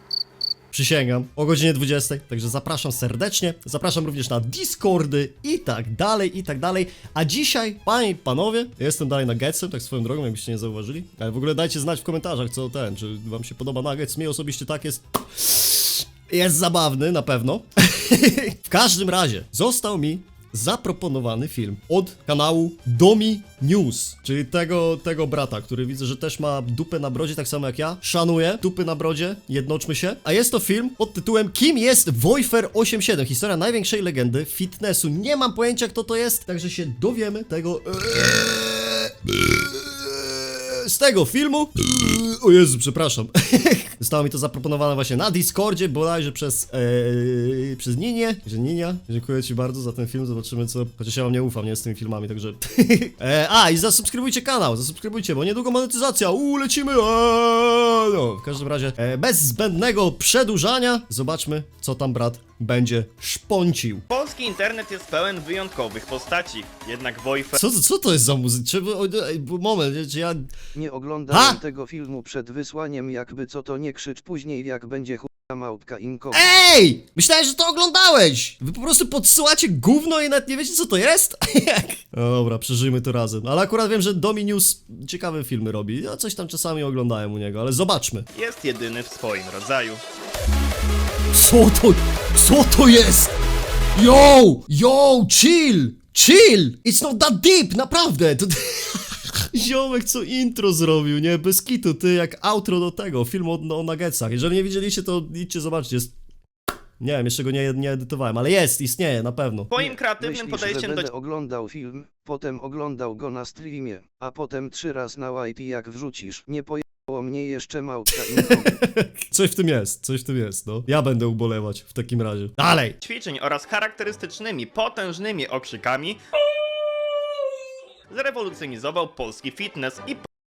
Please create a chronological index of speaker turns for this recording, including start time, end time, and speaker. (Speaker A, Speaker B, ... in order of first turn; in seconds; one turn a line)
Speaker A: 0.7-64.0
Speaker B: 64.1-67.6
Speaker A: 67.5-70.4
Speaker C: 70.7-76.5
Speaker A: 71.3-71.6
Speaker A: 76.3-88.2
Speaker B: 88.3-90.0
Speaker A: 91.3-93.3
Speaker A: 93.9-106.1
Speaker A: 107.0-109.7
Speaker B: 109.7-111.1
Speaker C: 109.8-118.8
Speaker A: 118.3-123.0
Speaker B: 123.0-126.2
Speaker B: 128.1-130.2